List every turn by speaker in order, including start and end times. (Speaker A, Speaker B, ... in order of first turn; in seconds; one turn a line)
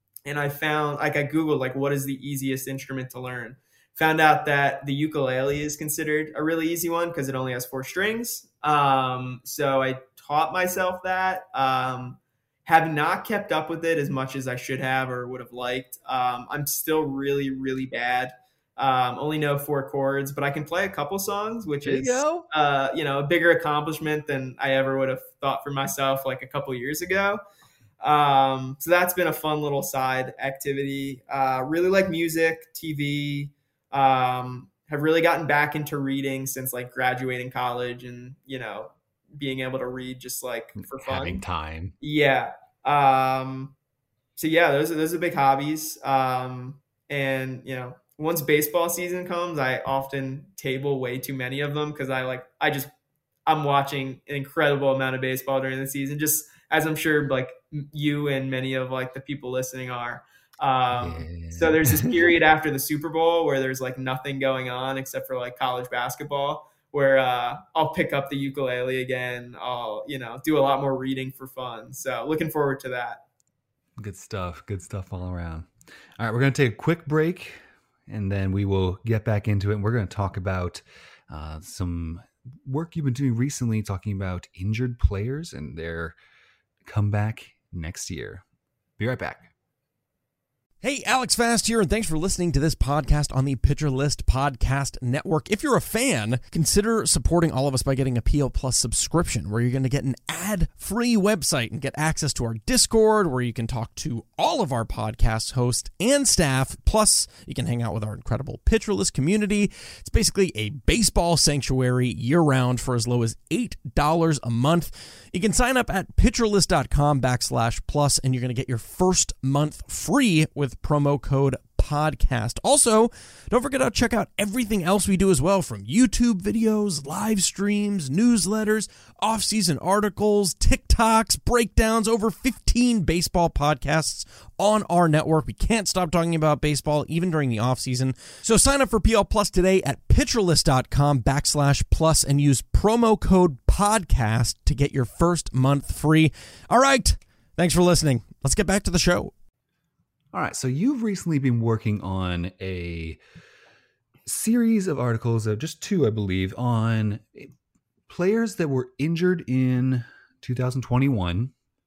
Speaker A: 0.2-27.4
Speaker B: 21.8-22.4
Speaker A: 28.0-41.4
Speaker B: 40.8-41.9
Speaker A: 42.0-43.7
Speaker A: 44.4-52.9
Speaker A: 53.5-73.2
Speaker B: 60.9-62.2
Speaker B: 74.0-86.2
Speaker B: 86.8-88.4
Speaker B: 89.0-89.5
Speaker C: 90.8-149.3
Speaker B: 150.3-153.2
Speaker B: 154.2-157.5
Speaker B: 158.1-161.5